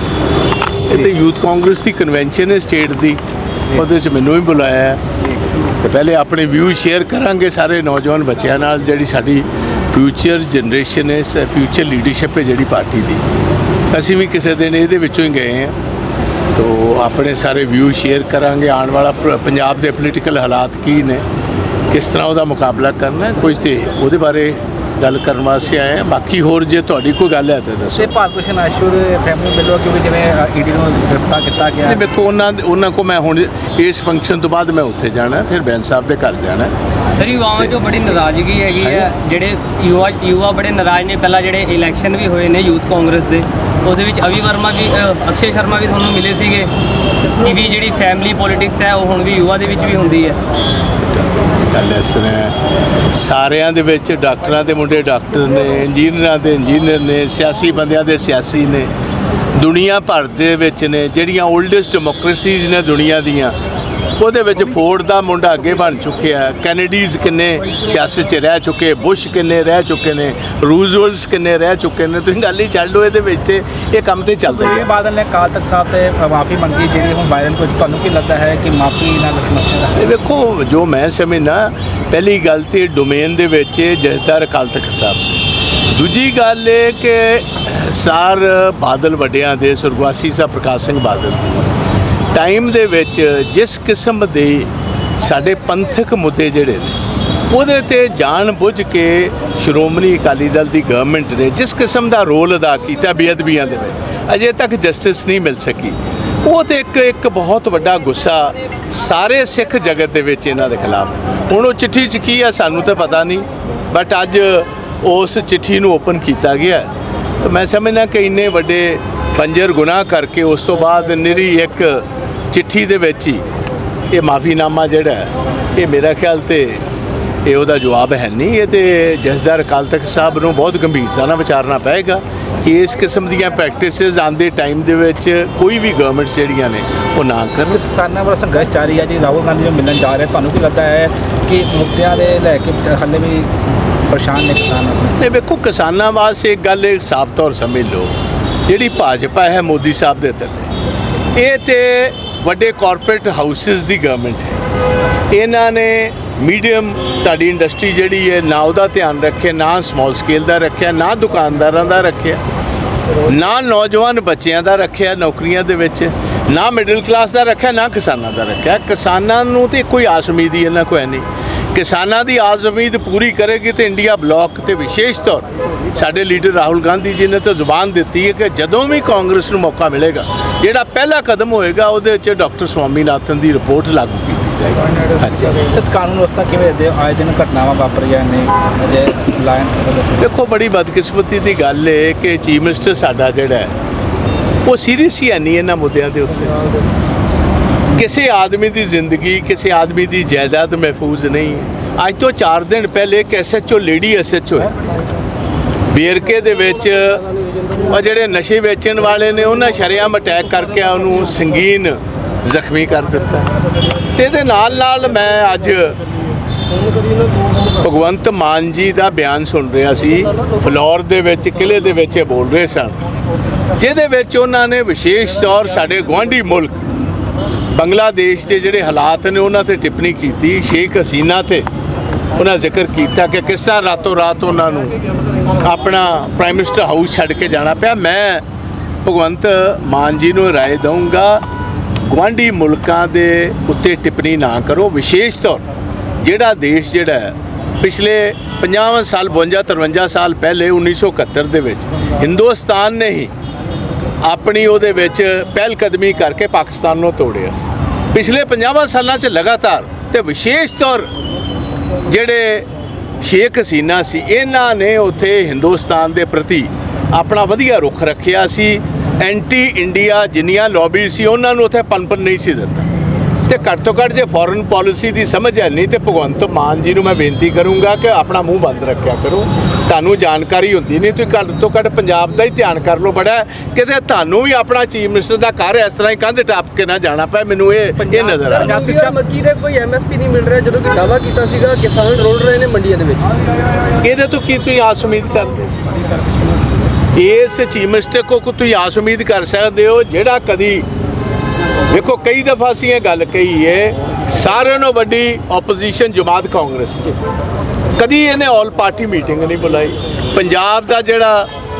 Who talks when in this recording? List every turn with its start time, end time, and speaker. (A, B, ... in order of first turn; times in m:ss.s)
0:00.9-0:03.2 A
0:03.7-0:05.0 A
0:05.6-0:13.2 A
0:13.9-0:15.7 A
0:16.5-0:21.2 A
0:21.9-0:28.1 A
0:27.9-0:32.0 B
0:31.8-0:36.7 A
0:37.2-0:46.7 C
0:47.4-0:50.4 C
0:51.7-0:52.5 A
0:53.1-0:58.9 A
0:59.6-1:03.5 A
1:04.2-1:14.8 A
1:14.4-1:20.0 B
1:20.0-1:31.7 A
1:32.3-1:56.9 A
1:57.4-2:03.4 A
2:04.1-2:06.8 A
2:07.4-2:17.8 A
2:17.7-2:23.5 B
2:24.1-2:25.2 B
2:25.2-2:28.1 A
2:28.7-2:30.7 A
2:31.4-2:34.5 A
2:35.3-2:42.4 A
2:43.2-3:05.6 A
3:05.6-3:10.2 B
3:10.2-3:13.7 A
3:14.6-3:16.6 A
3:18.0-3:24.7 A
3:25.9-3:27.2 A
3:27.8-3:33.5 A
3:34.1-3:36.0 A
3:37.8-3:43.0 A
3:43.8-3:46.8 A
3:47.8-3:51.6 A
3:52.3-3:54.9 A
3:55.6-3:58.4 A
3:59.0-4:01.4 A
4:02.1-4:05.6 A
4:06.2-4:13.3 A
4:14.2-4:21.1 A
4:22.0-4:22.6 A
4:23.2-4:32.9 A
4:33.4-4:48.8 A
4:48.0-4:49.2 B
4:48.5-4:53.3 D
4:54.0-4:55.7 A
4:57.1-5:00.8 A
5:01.9-5:07.1 A
5:08.0-5:11.5 A